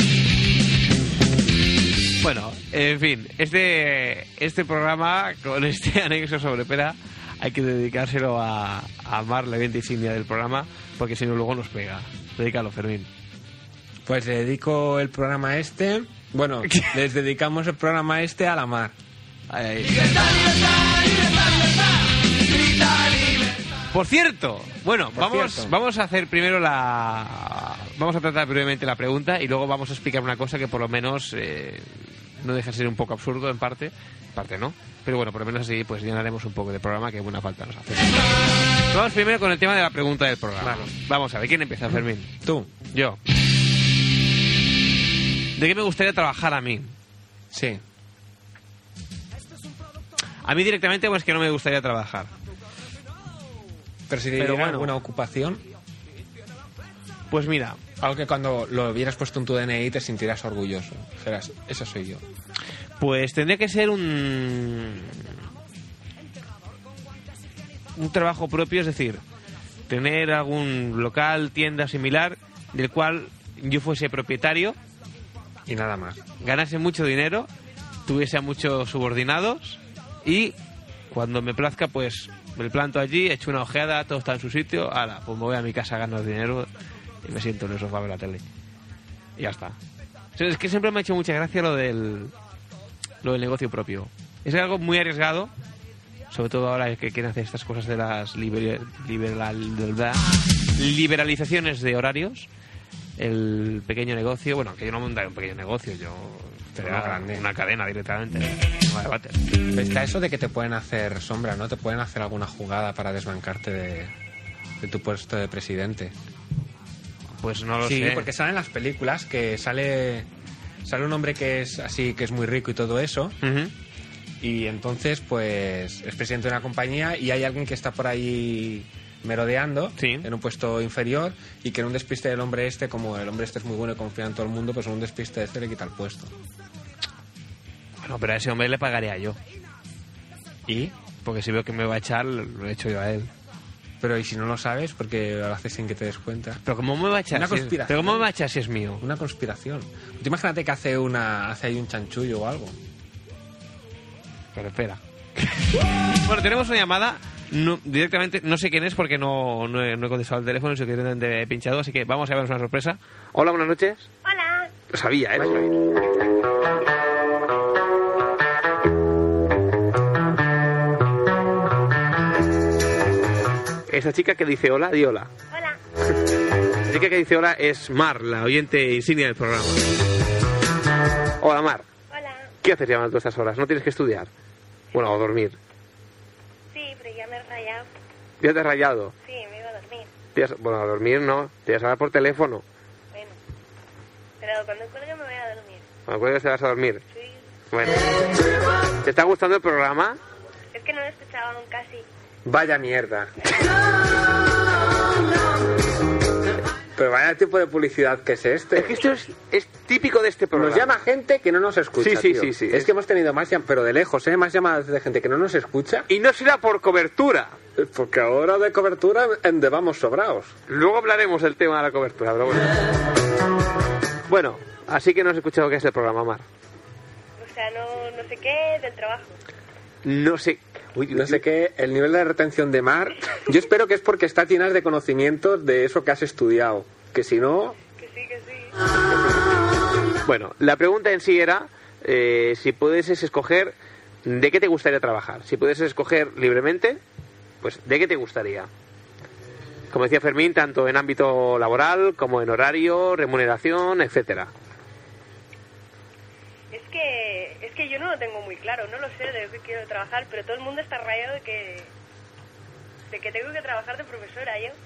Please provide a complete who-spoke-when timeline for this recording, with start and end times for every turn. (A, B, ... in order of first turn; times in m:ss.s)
0:02.2-0:13.1 A
0:14.0-0:19.0 B
0:16.6-0:16.9 A
0:19.5-0:20.6 A
0:23.9-0:38.3 A
0:25.1-0:25.7 B
0:38.9-0:42.3 A
0:40.6-0:40.9 B
0:42.4-0:42.7 B
0:42.9-0:43.2 A
0:45.6-0:46.9 A
0:47.5-0:47.8 B
0:50.4-0:52.3 A
0:54.1-0:55.6 B
0:54.4-0:54.9 A
0:57.3-0:57.8 A
0:58.0-1:02.2 B
1:03.0-1:05.4 A
1:08.0-1:09.2 A
1:09.9-1:14.8 A
1:15.6-1:16.3 B
1:16.4-1:17.5 A
1:18.0-1:20.5 A
1:21.1-1:26.7 A
1:27.2-1:28.4 A
1:29.4-1:29.8 A
1:30.4-1:32.3 A
1:33.2-1:35.5 A
1:36.3-1:40.2 A
1:40.8-1:42.5 A
1:43.2-1:49.4 A
1:46.7-1:47.4 B
1:49.7-1:54.1 B
1:54.8-1:56.1 B
1:57.4-1:58.3 A
1:57.8-2:00.3 B
2:00.8-2:03.4 B
2:03.4-2:03.7 A
2:04.4-2:16.3 B
2:10.0-2:10.3 A
2:18.0-2:19.4 A
2:20.7-2:20.9 B
2:21.2-2:23.3 A
2:24.0-2:26.6 B
2:26.6-2:29.0 A
2:27.3-2:28.3 B
2:29.0-2:32.8 B
2:34.5-2:44.1 A
2:44.2-2:44.7 C
2:44.9-2:45.8 A
2:53.9-2:55.3 A
2:55.5-2:55.8 C
2:56.8-2:59.9 A
3:01.4-3:01.8 A
3:02.1-3:02.5 C
3:02.6-3:04.3 A
3:04.9-3:05.6 A
3:06.7-3:07.9 C
3:08.4-3:09.1 A
3:09.2-3:10.1 C
3:10.3-3:12.6 A
3:14.4-3:15.8 C
3:16.1-3:17.0 A
3:17.1-3:17.4 C
3:17.7-3:18.1 A
3:19.0-3:20.2 A
3:20.7-3:22.0 C
3:22.4-3:23.3 B
3:27.0-3:29.0 B
3:28.7-3:30.9 A
3:30.5-3:36.1 B
3:32.0-3:32.9 A
3:36.1-3:37.6 A
3:37.8-3:40.5 B
3:40.7-3:42.8 A
3:44.3-3:46.4 A
3:47.4-3:49.4 C
3:50.0-3:51.4 A
3:51.1-3:57.8 B
3:58.0-3:58.7 C
4:00.2-4:07.0 A
4:07.6-4:08.7 A
4:09.9-4:14.5 A
4:16.7-4:21.9 C
4:23.1-4:24.8 C